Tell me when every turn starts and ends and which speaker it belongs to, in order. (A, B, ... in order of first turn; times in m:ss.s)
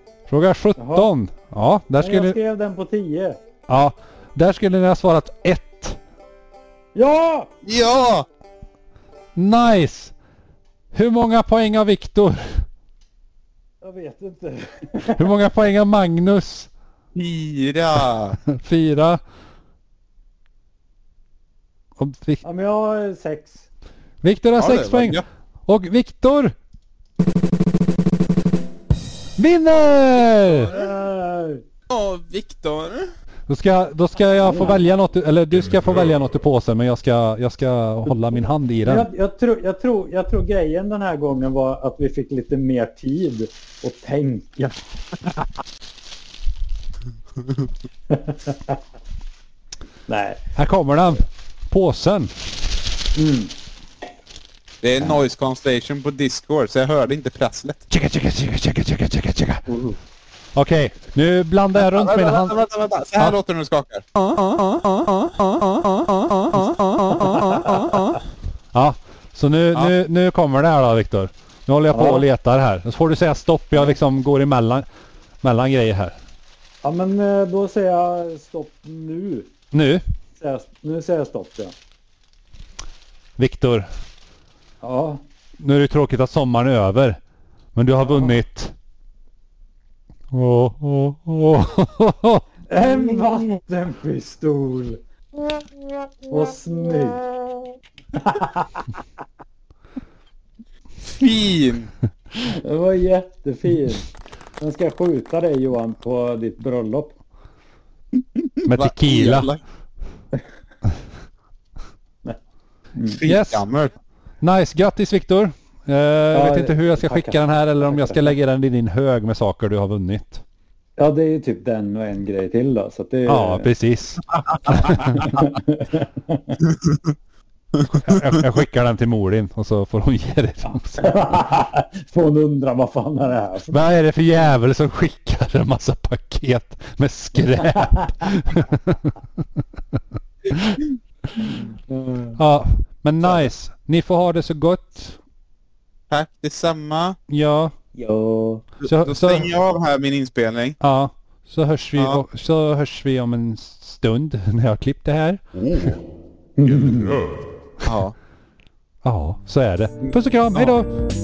0:00.3-0:02.4 A
0:00.8-0:01.1 B
0:02.0-0:03.4 B
0:03.7-0:06.0 A
0:07.0-0:07.5 B
0:07.6-0:08.3 C
0:09.4-0:10.1 A
0:10.9-0:12.6 A
0:13.8-0:15.3 B
0:15.1-0:16.7 A
0:17.2-0:18.4 C
0:18.5-0:19.2 A
0:22.0-0:22.4 A
0:22.4-0:23.7 B
0:24.2-0:26.6 A
0:24.6-0:25.2 C
0:29.4-0:30.7 A
0:30.7-0:31.6 B
0:31.9-0:33.1 C
0:33.5-0:39.1 A
0:34.4-0:34.8 B
0:38.8-0:44.8 B
0:48.1-0:48.8 B
0:50.1-0:50.4 B
0:50.6-0:52.4 A
0:53.2-0:53.5 B
0:54.8-0:57.8 C
0:57.9-0:59.7 A
0:59.7-1:00.0 C
1:00.6-1:02.6 A
1:01.8-1:08.2 C
1:07.2-1:07.7 B
1:08.7-1:14.9 A
1:11.9-1:12.3 B
1:15.4-1:16.2 A
1:16.8-1:19.5 B
1:19.7-1:20.0 A
1:20.4-1:21.8 B
1:23.4-1:23.9 A
1:24.8-1:25.2 B
1:25.6-1:27.2 A
1:27.8-1:28.7 A
1:30.3-1:32.4 A
1:32.7-1:35.0 B
1:36.3-1:37.3 B
1:38.1-1:38.9 B
1:41.0-1:41.9 C
1:42.4-1:44.1 B
1:44.6-1:47.2 B
1:48.6-1:49.6 C
1:48.6-1:49.5 A
1:53.1-1:54.0 C
1:53.2-1:53.7 A
1:54.4-2:00.4 A
1:56.3-1:58.2 B
2:01.0-2:03.7 B
2:03.3-2:05.3 A
2:04.8-2:06.6 B
2:08.0-2:11.1 A
2:11.0-2:13.8 B
2:13.7-2:20.8 A
2:17.6-2:18.1 B
2:21.9-2:22.4 B
2:22.4-2:25.2 A
2:26.1-2:27.2 C
2:27.3-2:27.8 A
2:28.0-2:28.6 B
2:28.8-2:30.8 C
2:28.8-2:29.5 A
2:30.8-2:36.0 A
2:32.0-2:32.2 C
2:35.6-2:35.9 C
2:36.6-2:37.3 B
2:37.8-2:38.2 C
2:39.0-2:40.9 A
2:40.0-2:40.7 C